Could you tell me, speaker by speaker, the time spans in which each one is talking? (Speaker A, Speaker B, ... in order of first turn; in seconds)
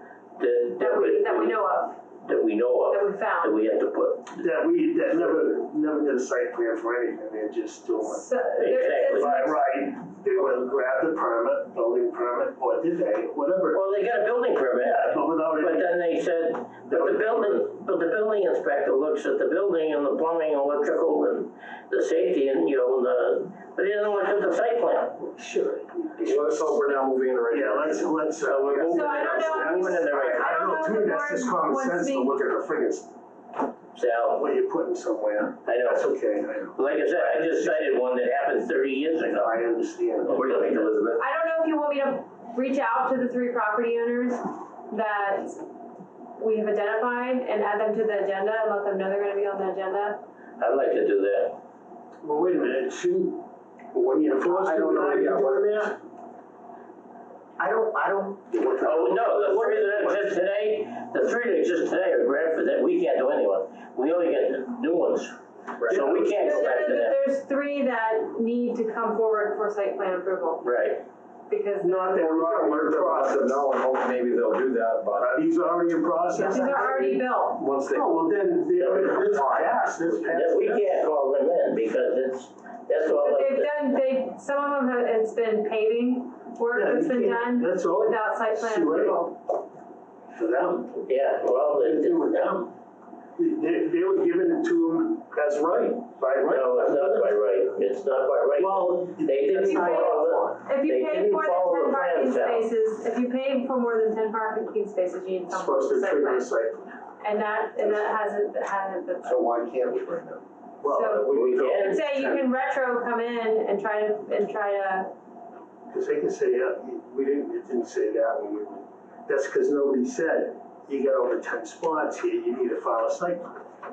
Speaker A: 0.4-1.6, 2.2-4.4, 8.6-9.4, 13.7-25.2, 28.4-30.8, 33.9-34.4, 35.6-36.2, 36.8-39.6, 40.3-40.9, 50.6-51.6, 58.8-67.2, 70.6-71.0, 78.8-79.3, 80.3-83.7, 91.1-92.5, 96.4-102.7, 111.3-112.4
Speaker B: 0.8-2.0, 2.9-3.5, 8.0-9.6, 28.8-32.3, 41.2-45.6, 46.4-50.2, 66.3-70.6, 71.5-72.1, 76.3-77.6, 83.0-89.3, 99.6-106.5, 107.2-109.4, 110.8-115.1
Speaker C: 4.4-8.2, 9.0-13.8, 14.8-16.0, 16.9-17.7, 25.2-26.9, 27.5-33.1, 34.4-37.9, 39.4-40.7, 52.2-56.0, 57.6-60.2, 65.9-66.8, 71.8-73.6, 75.2-77.2, 77.8-80.8, 86.7-89.2, 90.3-91.0, 91.8-92.8, 93.4-97.3, 98.6-100.6, 105.5-106.8, 107.8-108.1, 110.8-111.9, 115.9-123.6
Speaker D: 26.2-28.1, 40.4-41.2, 54.5-55.9, 65.8-66.2, 72.1-75.3, 77.6-78.3, 78.8-80.2, 109.2-110.4